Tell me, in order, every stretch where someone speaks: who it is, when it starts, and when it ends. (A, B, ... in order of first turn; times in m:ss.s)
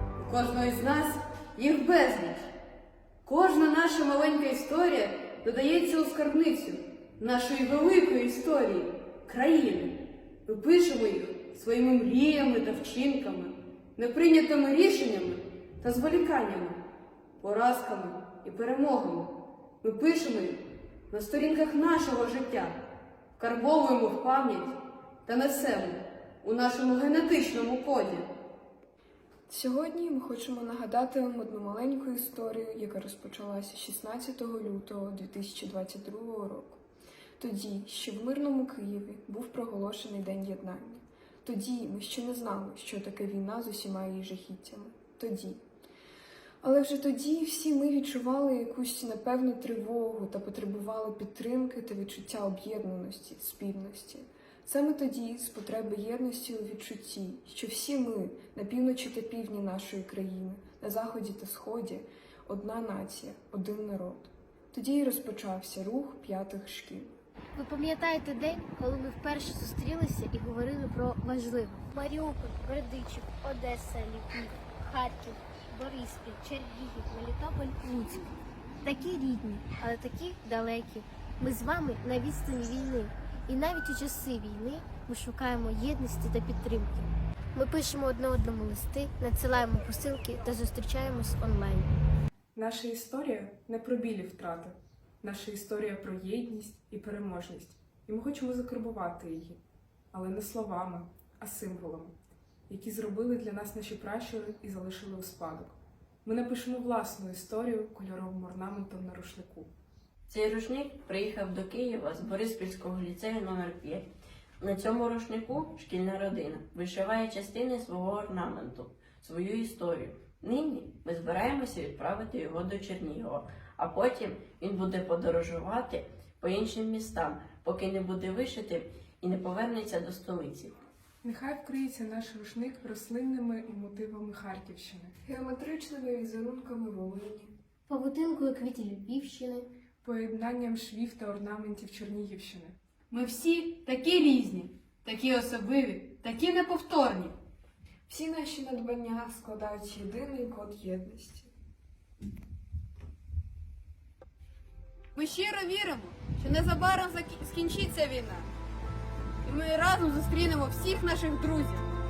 0:00.2-0:02.5 A
0:03.2-0:16.8 A
0:17.4-0:22.8 A
0:23.4-0:28.3 A
0:29.5-0:36.8 B
0:37.4-0:45.6 B
0:46.6-1:07.1 B
1:07.5-1:18.3 C
1:18.8-1:31.9 C
1:32.6-1:39.6 D
1:40.1-1:42.1 D
1:42.7-1:49.7 D
1:50.3-1:54.1 E
1:54.6-2:10.8 E
2:11.2-2:15.1 D
2:15.2-2:17.5 B
2:17.9-2:19.7 C
2:20.0-2:22.8 D
2:23.1-2:27.4 A
2:28.1-2:31.5 B
2:35.1-2:38.5 A
2:39.4-2:41.9 A